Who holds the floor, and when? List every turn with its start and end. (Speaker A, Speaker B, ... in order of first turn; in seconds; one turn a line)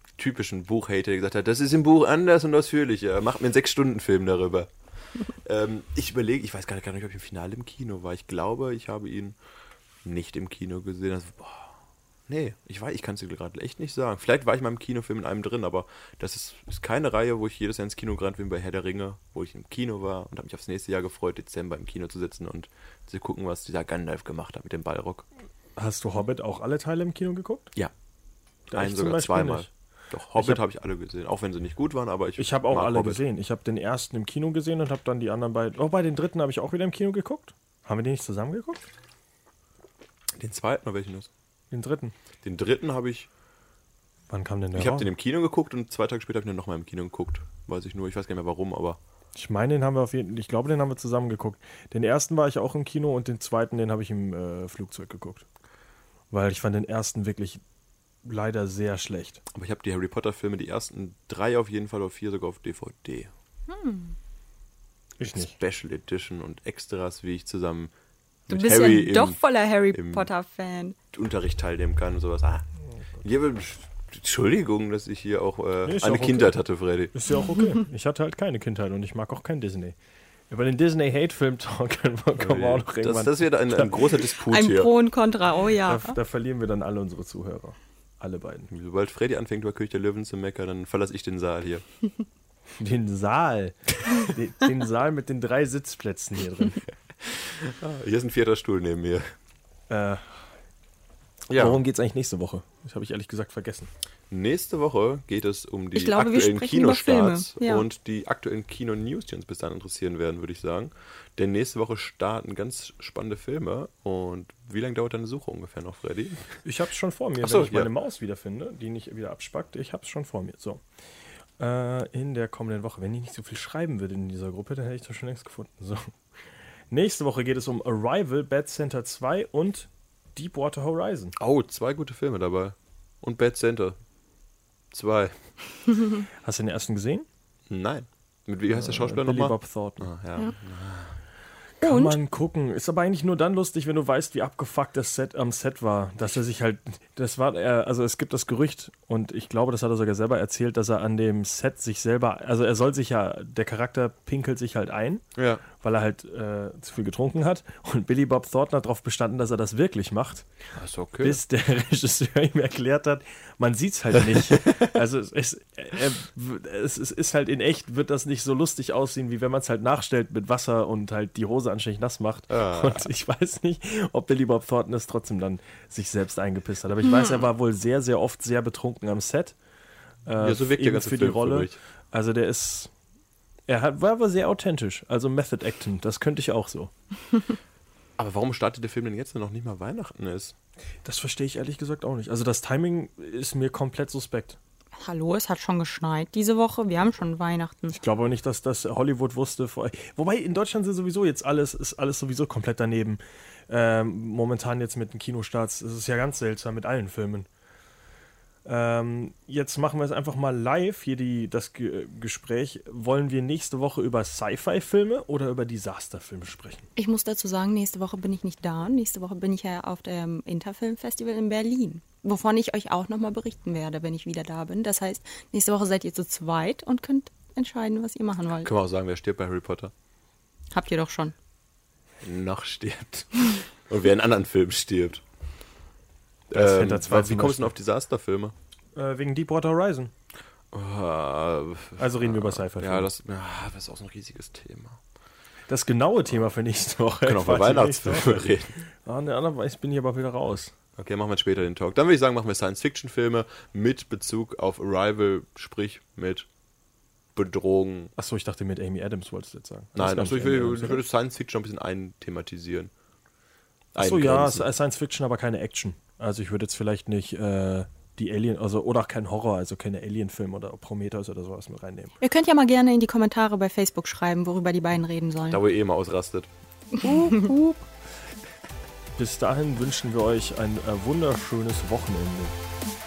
Speaker A: 0.2-9.3
Speaker A: 10.0-11.7
Speaker A: 12.3-25.2
Speaker B: 25.8-27.7
Speaker B: 28.7-29.7
Speaker A: 28.7-33.2
Speaker B: 30.4-30.6
Speaker B: 32.4-38.9
Speaker A: 40.4-41.3
Speaker B: 41.7-42.1
Speaker A: 42.4-43.3
Speaker B: 44.3-45.1
Speaker A: 44.8-49.0
Speaker B: 49.3-55.4
Speaker B: 56.3-57.6
Speaker B: 58.2-59.4
Speaker A: 59.5-63.3
Speaker C: 63.7-64.2
Speaker B: 65.2-65.5
Speaker A: 65.2-67.9
Speaker A: 68.5-69.4
Speaker C: 68.5-71.0
Speaker A: 69.9-70.3
Speaker A: 71.1-72.6
Speaker A: 73.2-77.1
Speaker B: 75.8-80.0
Speaker B: 80.5-84.1
Speaker A: 82.4-84.9
Speaker C: 84.3-86.2
Speaker B: 85.8-88.7
Speaker A: 88.7-91.8
Speaker B: 92.8-96.8
Speaker A: 97.2-99.2
Speaker B: 99.9-100.2
Speaker A: 101.5-101.8
Speaker B: 101.5-103.9
Speaker A: 104.3-116.6
Speaker C: 105.9-107.8
Speaker B: 116.6-120.8
Speaker A: 117.4-117.9
Speaker B: 121.6-126.1
Speaker B: 126.9-131.3
Speaker A: 131.4-134.0
Speaker A: 134.9-135.3
Speaker B: 136.4-137.3
Speaker A: 137.7-141.1
Speaker B: 138.7-140.1
Speaker B: 141.8-160.4
Speaker C: 141.8-142.2
Speaker A: 155.4-155.6
Speaker A: 160.8-161.4
Speaker B: 161.2-179.6
Speaker A: 172.5-173.1
Speaker B: 180.2-182.9
Speaker A: 180.4-181.8
Speaker B: 183.7-186.9
Speaker A: 188.2-190.5
Speaker B: 191.0-194.6
Speaker C: 195.0-197.9
Speaker B: 197.9-207.5
Speaker B: 208.6-216.9
Speaker C: 216.9-228.7
Speaker A: 228.6-229.9
Speaker C: 230.7-231.3
Speaker A: 232.2-235.2
Speaker B: 236.5-237.7
Speaker A: 236.5-238.5
Speaker B: 238.9-240.1
Speaker A: 240.7-245.0
Speaker B: 242.0-243.1
Speaker B: 245.7-250.7
Speaker A: 247.2-248.8
Speaker A: 251.0-256.5
Speaker A: 257.4-258.1
Speaker B: 258.1-261.0
Speaker A: 259.9-262.9
Speaker A: 263.9-264.7
Speaker B: 264.0-272.1
Speaker C: 272.2-275.6
Speaker A: 275.5-276.5
Speaker C: 277.0-277.5
Speaker A: 277.0-277.8
Speaker B: 279.1-282.6